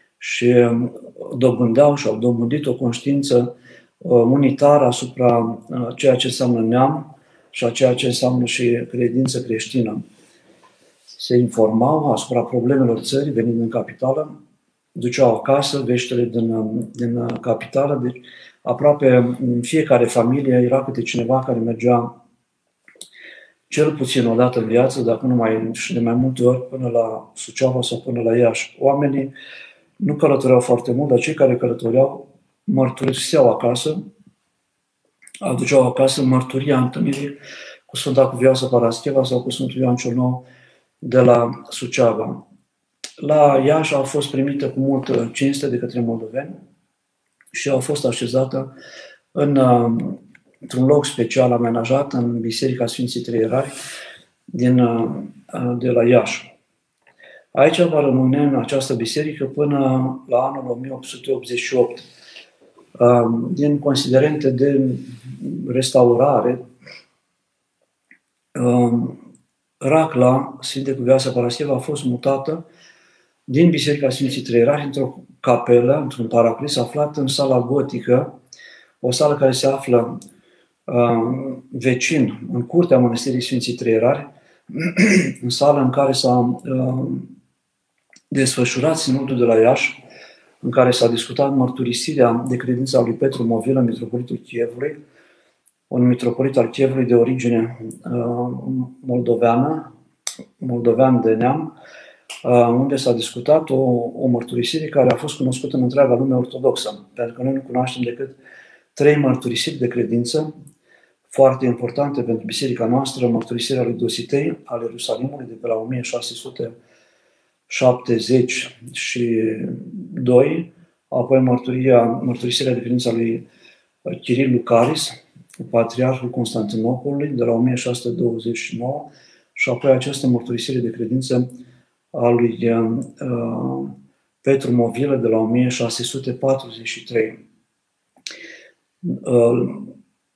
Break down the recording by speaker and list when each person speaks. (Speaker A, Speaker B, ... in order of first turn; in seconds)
Speaker A: 0.2-10.0, 11.2-14.3, 14.9-22.1, 23.7-29.3, 30.0-34.0, 35.4-37.4, 37.9-40.4, 41.0-42.4, 43.2-46.5, 47.5-48.7, 49.3-53.7, 54.5-56.5, 57.5-62.0, 63.0-66.6, 68.5-69.2, 69.8-72.6, 73.5-78.3, 79.0-80.2, 80.9-87.3, 88.3-90.0, 90.6-95.0, 95.9-99.9, 100.6-101.7, 102.4-108.4, 108.9-110.5, 111.3-116.7, 117.7-123.4, 124.1-131.5, 132.1-137.4, 139.0-139.9